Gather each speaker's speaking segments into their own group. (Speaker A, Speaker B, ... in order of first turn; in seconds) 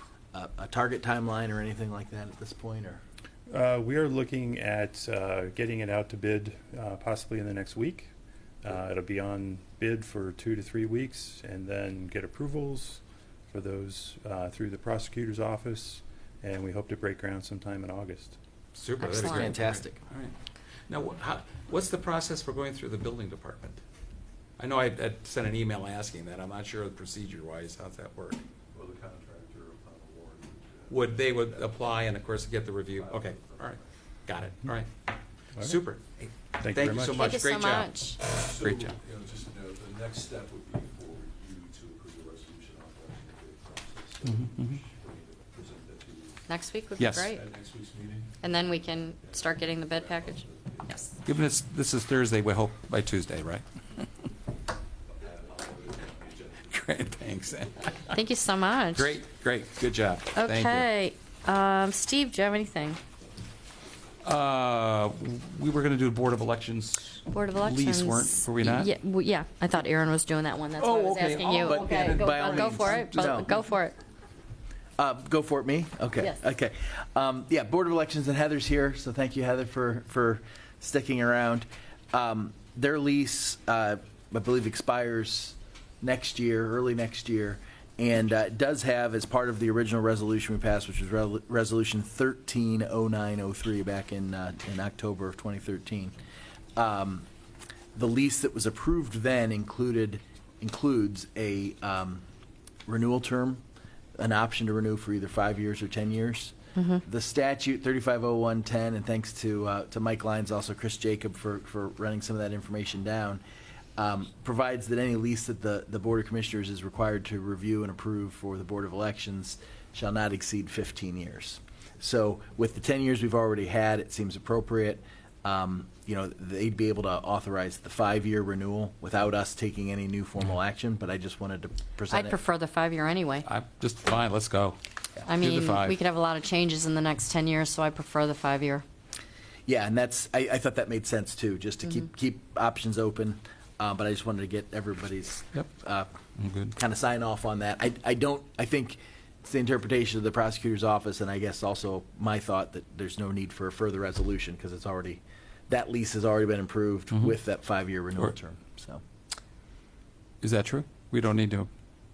Speaker A: 0.3-3.0, 19.2-19.9, 71.7-73.5, 75.0-96.1, 96.8-97.3, 97.9-102.2, 102.9-103.6, 104.2-113.4, 114.0-132.4, 139.7-146.1, 146.7-159.0
Speaker B: 3.5-8.1, 8.6-18.4, 36.6-37.2
Speaker C: 18.7-20.3, 20.9-23.8, 24.6-28.4, 30.9-34.9, 35.6-38.9, 44.2-44.7, 47.0-47.3, 51.2-53.6, 56.7-58.2, 58.9-60.9, 64.2-68.9, 70.8-73.4, 133.5-135.9, 146.4-146.7, 160.4-161.7
Speaker D: 19.0-19.5, 37.1-38.2, 46.5-47.4, 48.4-51.1, 58.1-59.1, 60.4-63.0, 67.3-74.0, 106.8-107.0, 132.1-133.4, 135.3-138.8
Speaker E: 28.7-32.4, 32.9-33.9, 38.3-46.5, 47.1-51.2, 55.1-57.2